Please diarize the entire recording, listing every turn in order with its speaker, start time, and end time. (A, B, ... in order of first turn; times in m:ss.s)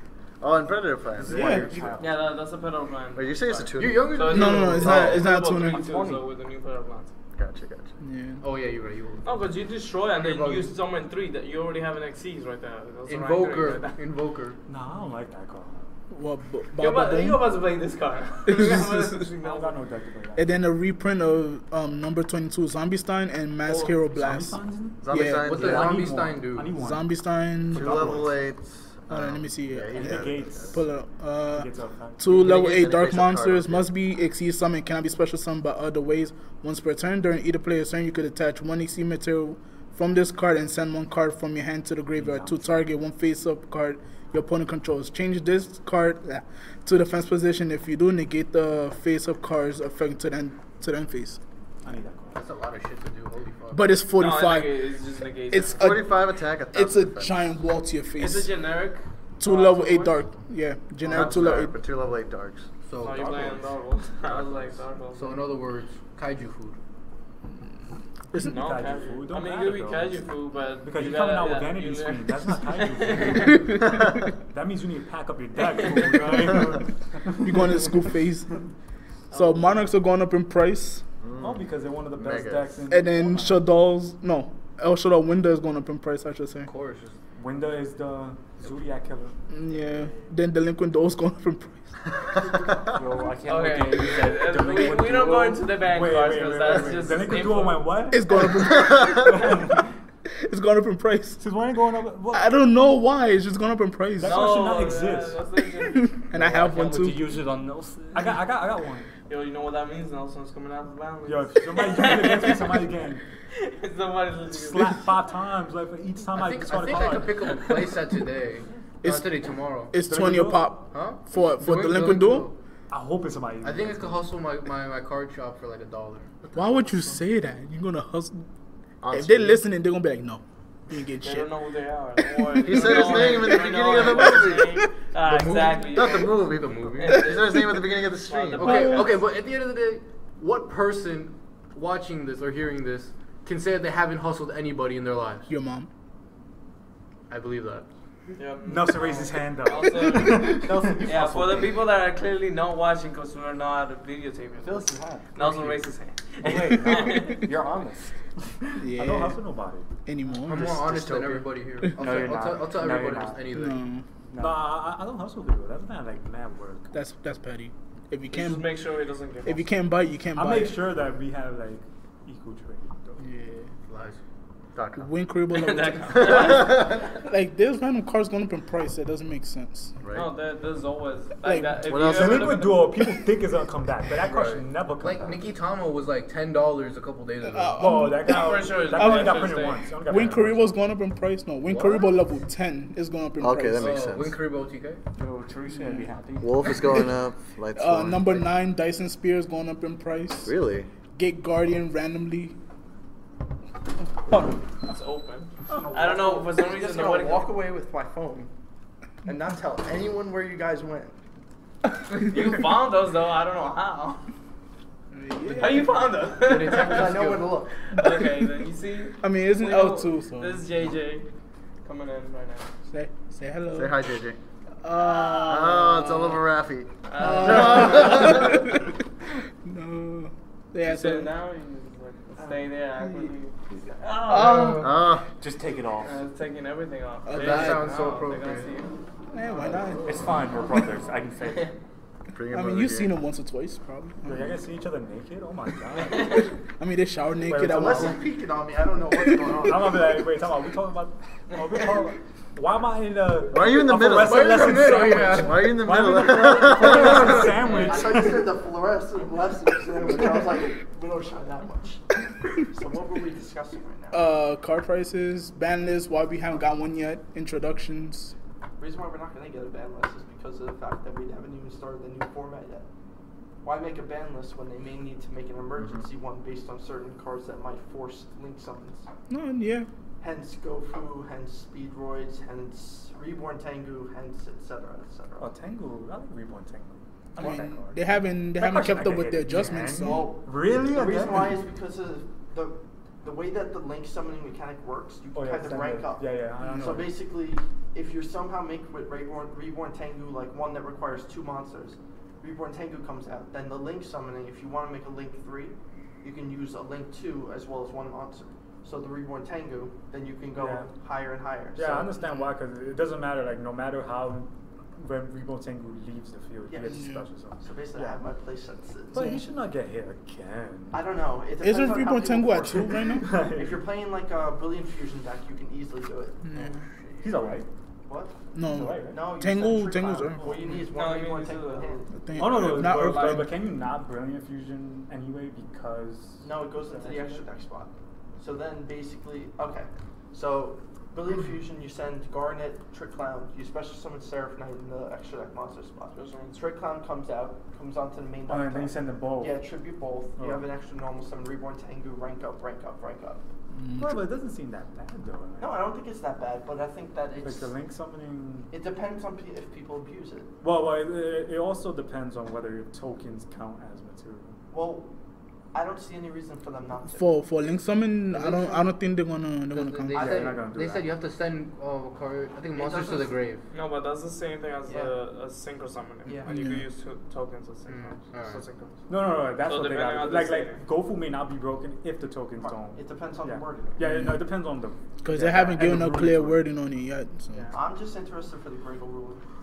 0:00.4-0:02.2 A
0:01.2-0:02.0 B
0:01.4-0:01.7 C
0:02.0-0:07.2 D
0:03.1-0:05.2 A
0:03.8-0:04.9 E
0:04.3-0:05.8 C
0:05.7-0:06.2 B
0:07.4-0:07.9 A
0:08.0-0:08.4 C
0:08.4-0:09.3 E
0:09.2-0:14.0 D
0:10.2-0:10.7 E
0:13.1-0:14.6 E
0:14.7-0:15.9 F
0:16.1-0:17.4 C
0:16.8-0:19.8 D
0:18.5-0:19.1 C
0:18.6-0:20.5 F
0:20.4-0:25.7 C
0:23.7-0:27.1 F
0:25.0-0:26.1 A
0:25.4-0:26.7 E
0:26.7-0:28.3 C
0:27.7-0:28.3 F
0:27.7-0:30.8 A
0:29.1-0:51.4 C
0:29.9-0:30.9 F
0:31.5-0:32.3 F
0:32.3-0:33.9 A
0:42.2-0:42.6 F
0:51.8-0:52.4 F
0:52.3-0:54.0 E
0:53.7-0:54.8 C
0:54.1-0:56.0 D
0:55.5-0:58.5 C
0:55.8-0:57.5 A
0:58.2-1:00.3 D
0:59.4-1:01.7 C
1:01.1-1:02.7 A
1:01.1-1:01.7 D
1:02.8-1:03.7 E
1:03.0-1:05.4 D
1:05.1-1:06.8 E
1:08.4-1:18.0 F
1:08.4-1:13.6 D
1:13.7-1:14.1 C
1:15.7-1:16.2 D
1:17.4-1:18.6 C
1:19.3-1:19.9 D
1:19.3-1:21.1 C
1:21.2-1:22.9 A
1:21.4-1:23.7 F
1:22.9-1:26.7 C
1:26.6-1:27.2 E
1:27.4-1:29.4 F
1:29.5-1:32.0 C
1:33.0-1:35.7 B
1:33.4-1:38.0 D
1:35.7-1:39.9 F
1:38.1-1:39.6 C
1:38.8-1:39.2 A
1:40.4-1:41.4 C
1:41.4-1:42.5 F
1:42.3-1:44.4 C
1:44.2-1:45.4 F
1:44.2-1:46.2 D
1:46.1-1:47.2 C
1:46.4-1:48.4 B
1:48.1-1:49.1 F
1:49.3-1:52.8 D
1:51.3-1:53.2 F
1:53.5-1:55.0 D
1:54.5-1:58.0 F
1:56.4-1:59.9 E
1:59.0-2:02.5 C
2:00.1-2:00.7 F
2:00.9-2:02.6 E
2:02.9-2:04.2 F
2:03.6-2:06.4 E
2:06.6-2:08.5 C
2:09.0-2:09.6 A
2:09.1-2:11.5 C
2:11.2-2:19.3 D
2:12.6-2:13.4 C
2:12.6-2:19.0 A
2:15.3-2:17.2 E
2:18.6-2:25.5 E
2:18.7-2:19.1 C
2:25.5-2:25.9 C
2:27.3-2:27.9 E
2:28.4-2:37.4 D
2:28.6-2:31.0 F
2:30.6-2:31.7 B
2:34.6-2:35.9 B
2:36.4-2:38.6 B
2:36.6-2:37.1 F
2:38.8-2:39.9 F
2:38.8-2:39.4 C
2:40.1-2:40.8 C
2:40.4-2:43.8 E
2:40.5-2:41.6 A
2:41.8-2:42.3 C
2:42.0-2:43.5 B
2:43.5-2:44.1 C
2:44.3-2:44.6 B
2:44.4-2:46.9 F
2:46.9-2:48.7 C
2:48.3-2:49.7 D
2:49.4-2:50.8 C
2:50.4-2:53.2 F
2:53.2-2:53.7 C
2:53.9-2:54.2 E
2:54.8-2:55.1 A
2:55.0-3:00.0 C
2:55.5-2:57.0 D
2:56.2-2:57.1 A
3:00.0-3:00.3 A
3:00.1-3:02.9 D
3:01.4-3:01.9 C
3:01.9-3:02.6 A
3:01.9-3:05.4 F
3:04.3-3:04.6 A
3:04.9-3:08.0 E
3:07.4-3:09.4 C
3:07.8-3:10.8 F
3:08.2-3:09.8 D
3:09.9-3:14.1 C
3:13.4-3:14.4 A
3:13.8-3:15.0 E
3:15.2-3:17.0 B
3:15.7-3:16.1 C
3:16.4-3:18.5 A
3:16.6-3:17.1 C
3:17.8-3:20.5 C
3:20.4-3:20.9 A
3:21.2-3:22.6 C
3:24.8-3:27.5 D
3:25.7-3:28.5 G
3:29.3-3:31.2 G
3:32.1-3:34.3 D
3:35.1-3:36.0 C
3:35.5-3:41.3 D
3:36.4-3:37.5 E
3:36.6-3:37.8 G
3:38.0-3:38.5 C
3:39.2-3:40.7 C
3:41.8-3:42.7 D
3:42.9-3:44.2 C
3:43.7-3:44.4 A
3:44.8-3:46.2 C
3:45.4-3:48.5 A
3:47.0-3:48.4 D
3:47.2-3:49.0 C
3:49.6-3:51.3 C
3:50.8-3:55.0 D
3:54.3-3:54.9 C
3:54.8-3:55.3 A
3:55.4-3:56.2 B
3:56.0-3:58.9 D
3:57.3-3:58.0 C
3:57.3-3:58.7 E
3:59.3-4:00.2 C
4:00.0-4:01.7 B
4:01.4-4:01.7 D
4:02.3-4:03.2 A
4:02.5-4:04.5 C
4:04.2-4:06.5 F
4:06.1-4:06.5 D
4:06.8-4:08.2 C
4:07.5-4:08.2 F
4:07.6-4:10.3 G
4:09.4-4:18.4 F
4:13.5-4:17.5 A
4:14.2-4:15.7 E
4:17.1-4:17.5 E
4:17.2-4:24.2 G
4:17.6-4:18.0 D
4:24.1-4:28.4 C
4:28.8-4:32.9 G
4:33.6-4:39.0 G
4:35.8-4:36.0 A
4:39.3-4:39.9 C
4:40.2-4:45.5 G
4:45.4-4:51.6 F
4:47.4-4:50.3 C
4:50.0-5:12.1 G
4:55.3-4:57.2 F
5:10.6-5:10.9 F
5:11.8-5:18.2 F
5:16.7-5:19.4 G
5:16.9-5:17.2 C
5:19.1-5:21.0 F
5:19.2-5:19.4 C
5:20.9-5:26.4 G
5:21.6-5:23.3 C
5:23.2-5:23.8 F
5:26.4-5:26.8 C
5:26.5-5:27.6 E
5:27.2-5:27.7 F
5:28.1-5:28.4 G
5:28.5-5:30.4 C
5:28.6-5:29.2 F
5:29.0-5:32.2 G
5:30.4-5:33.5 D
5:32.2-5:33.5 C
5:32.4-5:37.4 F
5:36.4-5:53.4 G
5:46.1-5:46.6 D
5:48.5-5:49.6 F
5:50.4-5:50.7 F
5:53.7-5:54.2 C
5:54.0-5:55.8 F
5:55.6-5:57.7 G
5:57.4-5:58.7 F
5:58.7-6:00.5 G
6:00.6-6:04.6 F
6:04.7-6:05.1 G
6:05.7-6:07.4 G
6:07.1-6:10.6 C
6:08.3-6:08.9 G
6:09.7-6:13.6 E
6:10.1-6:11.1 F
6:12.8-6:13.4 G
6:13.7-6:19.0 D
6:14.9-6:15.2 G
6:16.2-6:16.6 G
6:16.5-6:16.9 C
6:17.9-6:18.6 E
6:19.1-6:26.7 F
6:19.6-6:20.8 D
6:22.6-6:24.0 G
6:24.0-6:24.5 C
6:25.2-6:27.7 C
6:27.7-6:29.4 G